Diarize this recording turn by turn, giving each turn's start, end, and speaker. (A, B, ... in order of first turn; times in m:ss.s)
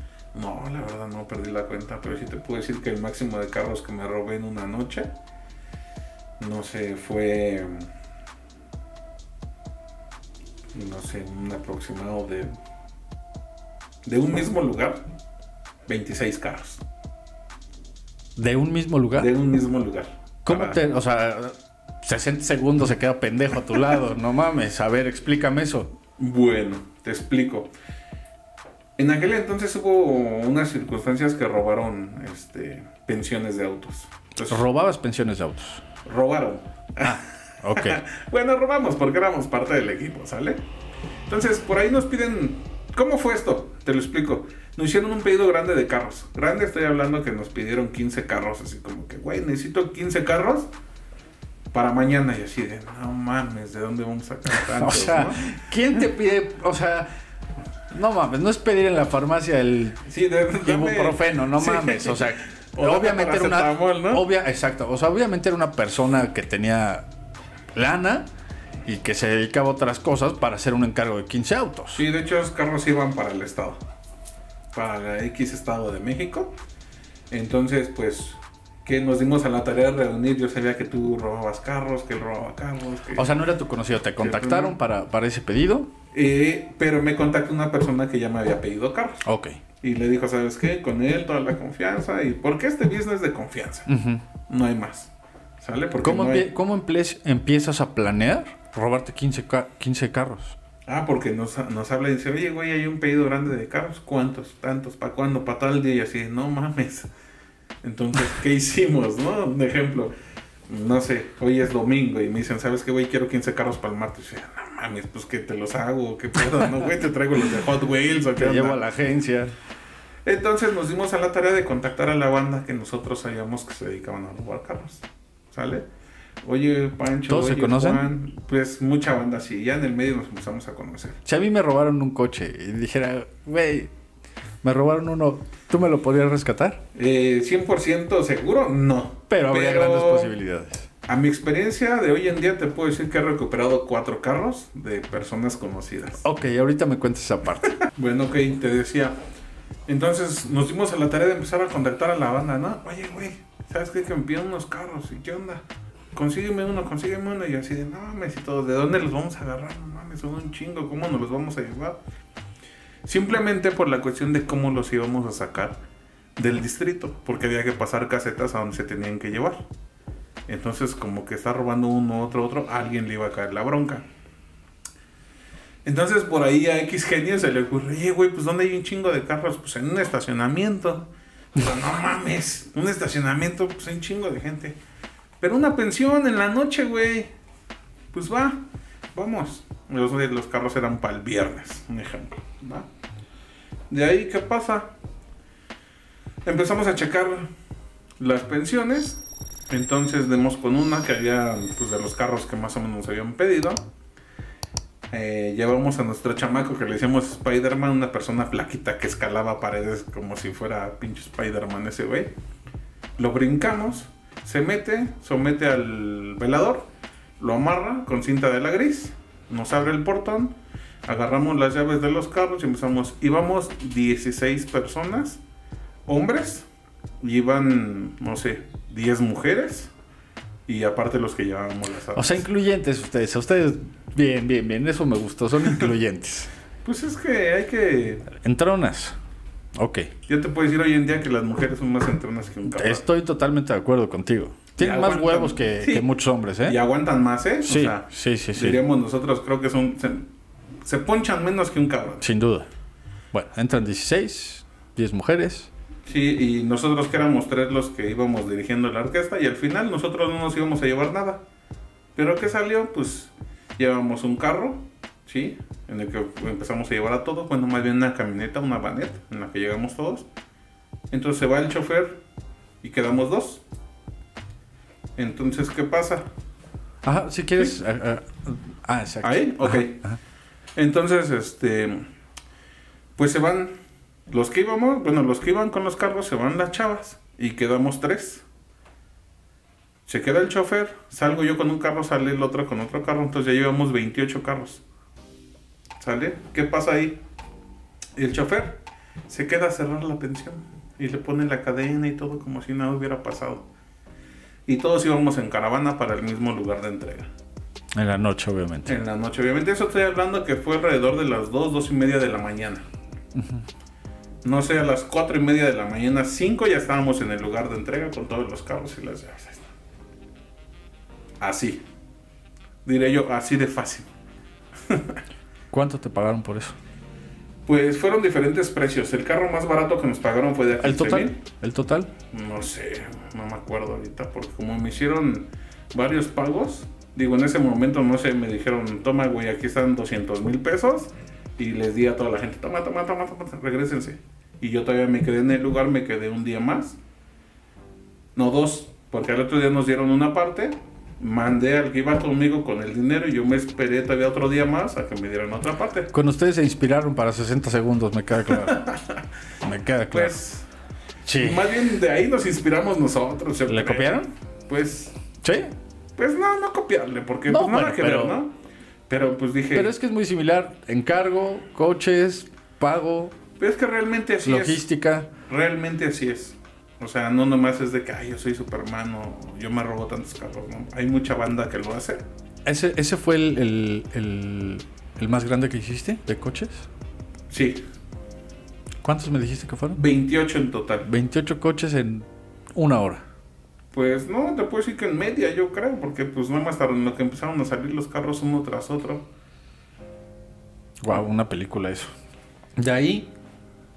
0:00.3-0:05.1 A
0:06.4-0:07.9 A
0:10.7-0:12.5 A
0:14.0-0:15.0 A
0:15.9-0:16.8 A
0:18.4-0:19.3 B
0:19.2-0:20.8 A
0:20.4-0:25.9 B
0:26.2-0:27.7 A
0:29.0-0:34.6 A
0:34.5-0:35.8 B
0:36.0-0:40.6 A
0:37.0-0:38.0 B
0:41.3-0:50.7 A
0:51.7-0:55.5 A
0:54.6-0:57.1 B
0:57.9-1:00.0 B
1:00.1-1:04.2 A
1:00.6-1:07.1 B
1:07.7-1:08.3 B
1:08.8-1:12.0 B
1:12.0-1:13.8 A
1:14.7-1:16.6 A
1:17.3-1:23.3 A
1:23.2-1:25.9 B
1:24.2-1:24.8 A
1:26.1-1:29.2 A
1:29.2-1:29.6 B
1:29.8-1:33.9 A
1:33.9-1:34.2 B
1:34.5-1:36.5 A
1:36.0-1:40.6 B
1:40.9-1:47.1 A
1:47.8-1:50.1 A
1:50.7-1:58.8 A
1:58.4-1:59.6 B
2:00.3-2:05.9 A
2:06.4-2:11.2 A
2:07.3-2:08.0 B
2:11.2-2:13.9 B
2:14.6-2:16.8 B
2:17.0-2:20.4 A
2:19.3-2:20.9 B
2:21.1-2:26.2 A
2:26.2-2:27.8 B
2:27.9-2:29.2 A
2:29.9-2:42.0 A
2:43.1-2:45.8 A
2:46.4-2:49.6 A
2:50.5-2:54.0 A
2:55.8-3:04.8 A
3:05.4-3:07.3 A
3:08.1-3:08.6 A
3:09.1-3:12.9 A
3:13.9-3:14.9 A
3:16.4-3:17.5 A
3:18.2-3:23.8 A
3:25.1-3:32.3 A
3:33.2-3:36.9 A
3:37.4-3:40.6 A
3:41.1-3:45.4 A
3:46.1-3:46.7 A
3:47.2-3:49.9 A
3:50.7-3:52.4 A
3:52.2-3:56.5 B
3:56.8-3:58.4 A
3:58.4-3:59.2 B
3:59.8-4:00.1 B
4:00.3-4:03.0 A
4:02.7-4:06.8 B
4:04.8-4:06.1 A
4:06.6-4:10.3 A
4:07.6-4:08.8 B
4:10.8-4:12.3 A
4:12.2-4:12.7 B
4:13.3-4:15.7 B
4:16.1-4:21.4 A
4:22.2-4:30.3 A
4:31.1-4:32.2 A
4:32.8-4:33.6 A
4:35.2-4:36.2 A
4:37.0-4:40.2 B
4:39.2-4:40.0 A
4:40.8-4:42.0 A
4:43.2-4:43.7 A
4:44.3-4:48.4 A
4:50.1-4:54.8 A
4:56.0-4:57.2 A
4:58.2-5:03.7 A
5:04.7-5:07.3 A
5:08.0-5:08.9 B
5:08.9-5:12.8 A
5:13.4-5:13.6 B
5:14.4-5:19.7 A
5:21.4-5:21.8 A
5:22.8-5:24.1 A
5:24.9-5:25.2 A
5:25.7-5:26.8 B
5:27.7-5:31.4 A
5:30.8-5:32.1 B
5:32.3-5:47.0 A
5:48.4-5:56.1 A
5:56.1-5:58.8 B
5:58.5-5:59.2 A
5:59.6-6:00.4 B
6:00.1-6:00.7 A
6:01.2-6:01.6 B
6:01.4-6:05.2 A
6:03.7-6:04.3 B
6:05.4-6:05.7 B
6:06.2-6:08.5 A
6:07.5-6:08.4 B
6:09.1-6:10.0 A
6:09.8-6:13.4 B
6:13.6-6:14.9 A
6:14.4-6:15.3 B
6:15.5-6:22.2 A
6:22.7-6:26.9 B
6:27.5-6:27.8 A
6:29.0-6:30.0 B
6:29.9-6:31.1 A
6:31.1-6:33.2 B
6:33.9-6:39.2 A
6:41.0-6:42.1 B
6:42.8-6:43.3 B